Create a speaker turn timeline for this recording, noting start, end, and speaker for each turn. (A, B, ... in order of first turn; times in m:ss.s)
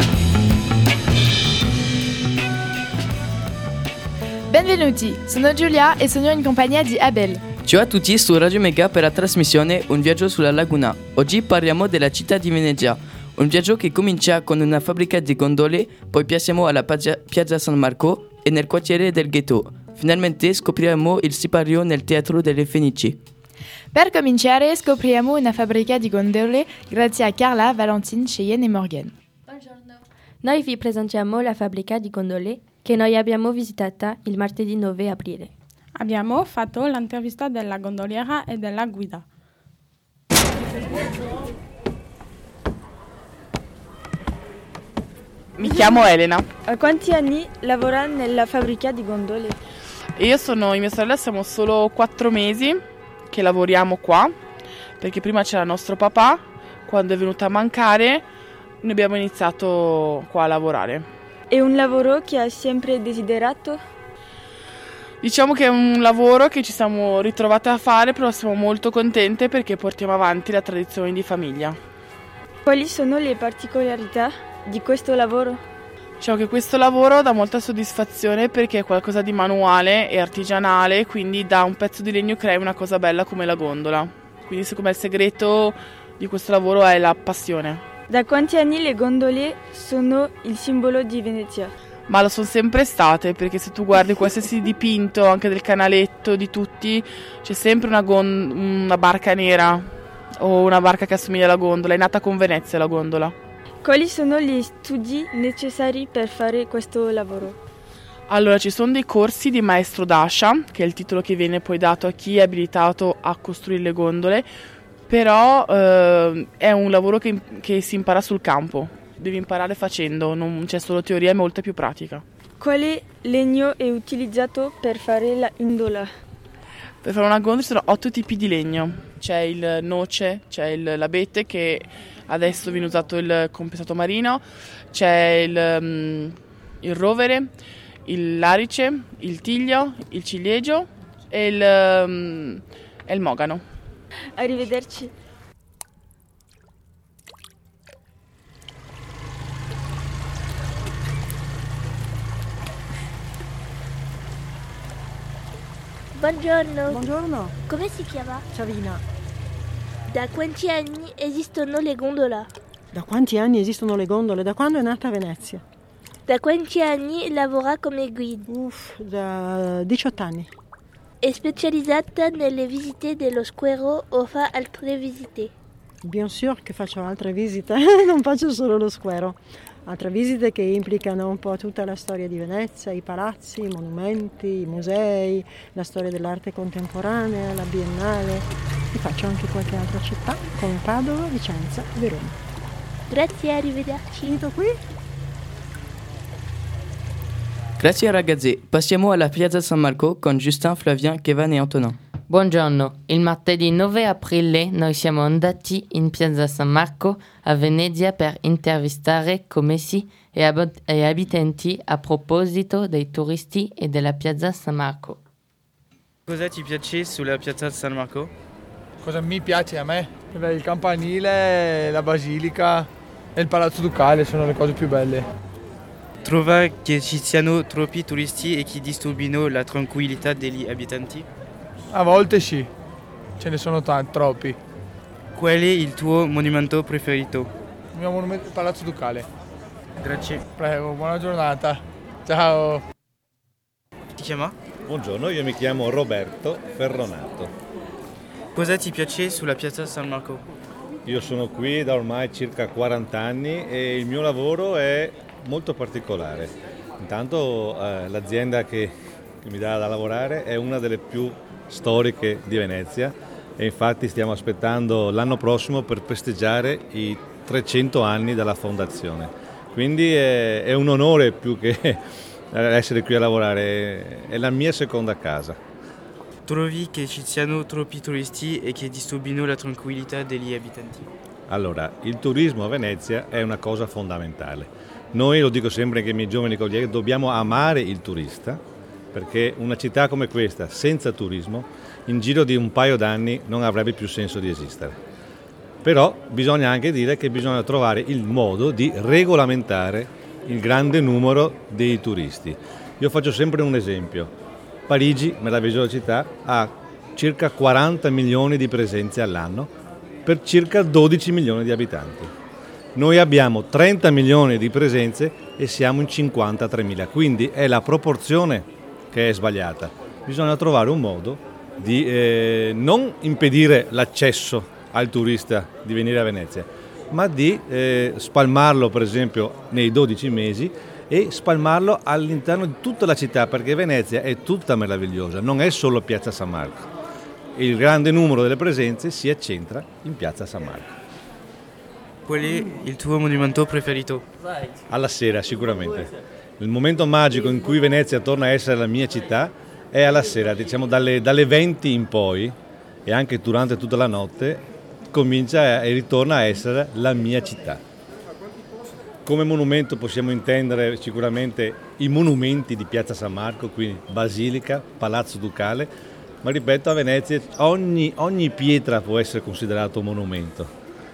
0:04.5-0:07.4 A
0:07.6-0:23.2 B
0:23.9-0:29.1 A
0:29.5-0:35.5 C
0:36.0-0:39.2 D
0:45.6-0:46.5 E
0:45.6-0:45.9 F
0:46.6-0:49.5 F
0:50.2-0:54.3 E
0:55.0-0:58.2 E
0:58.8-1:01.0 E
1:01.5-1:03.8 F
1:05.2-1:11.8 E
1:12.6-1:15.6 F
1:16.2-1:27.8 E
1:28.1-1:31.7 F
1:32.1-1:43.3 E
1:43.8-1:47.6 F
1:48.3-1:54.5 E
1:55.1-2:02.2 E
2:02.6-2:06.1 F
2:07.0-2:17.5 E
2:18.0-2:23.6 E
2:24.4-2:25.1 F
2:36.2-2:37.0 G
2:37.0-2:37.5 H
2:37.7-2:38.4 G
2:38.5-2:39.0 H
2:40.1-2:42.5 G
2:42.9-2:45.6 H
2:46.3-2:48.4 G
2:48.5-2:50.4 H
2:51.2-2:55.5 G
2:56.0-3:08.4 H
3:08.9-3:12.2 H
3:13.1-3:14.3 G
3:14.3-3:14.7 H
3:17.8-3:22.0 B
3:22.3-3:35.2 I
3:36.2-3:38.3 J
3:39.0-3:45.2 K
3:46.2-3:51.3 J
3:51.9-3:52.7 K
3:53.4-3:54.6 K
3:55.3-3:57.5 J
3:57.9-3:59.2 K
4:00.0-4:00.4 J
4:00.6-4:02.8 K
4:04.1-4:04.6 J
4:04.9-4:07.5 L
4:08.5-4:10.4 J
4:11.0-4:35.6 L
4:36.4-4:41.1 J
4:41.5-4:48.6 L
4:49.1-4:55.0 L
4:55.8-5:04.3 L
5:04.9-5:09.7 L
5:10.2-5:12.3 L
5:12.9-5:36.9 L
5:37.5-5:40.9 L
5:42.2-5:44.2 J
5:44.9-5:57.8 L
5:59.2-6:05.9 L
6:06.4-6:10.7 L